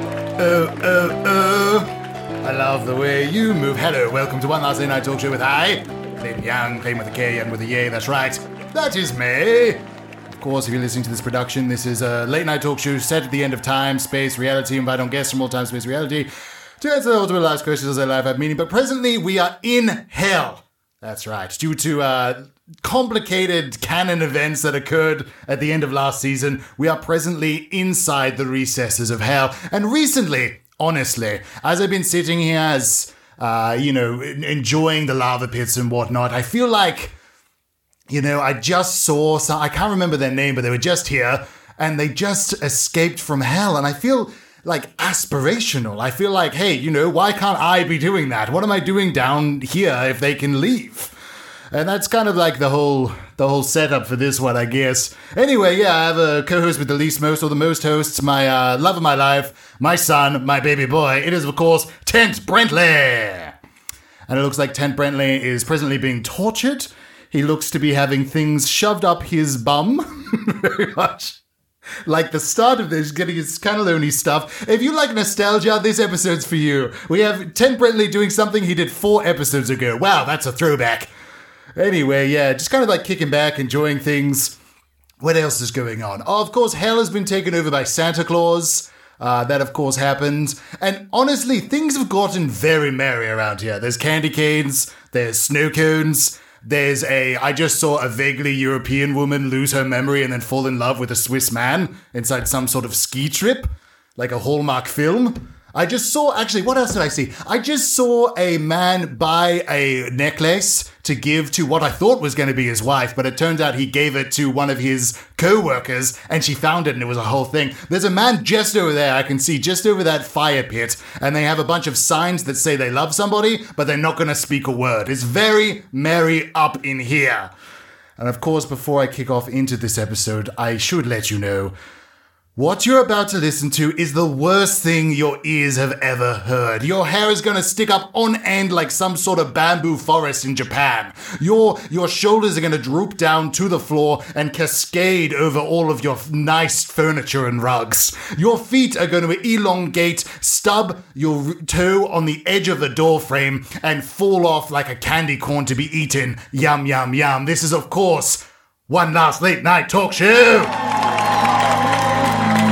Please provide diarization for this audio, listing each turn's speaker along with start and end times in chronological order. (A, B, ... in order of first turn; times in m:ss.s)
0:00.4-0:37.2 A
0:38.1-0:51.2 A
0:51.7-1:03.6 A
1:04.3-1:11.4 A
1:12.0-1:21.1 A
1:21.8-1:24.6 A
1:25.2-2:07.5 A
2:08.2-2:11.7 A
2:12.6-2:40.8 A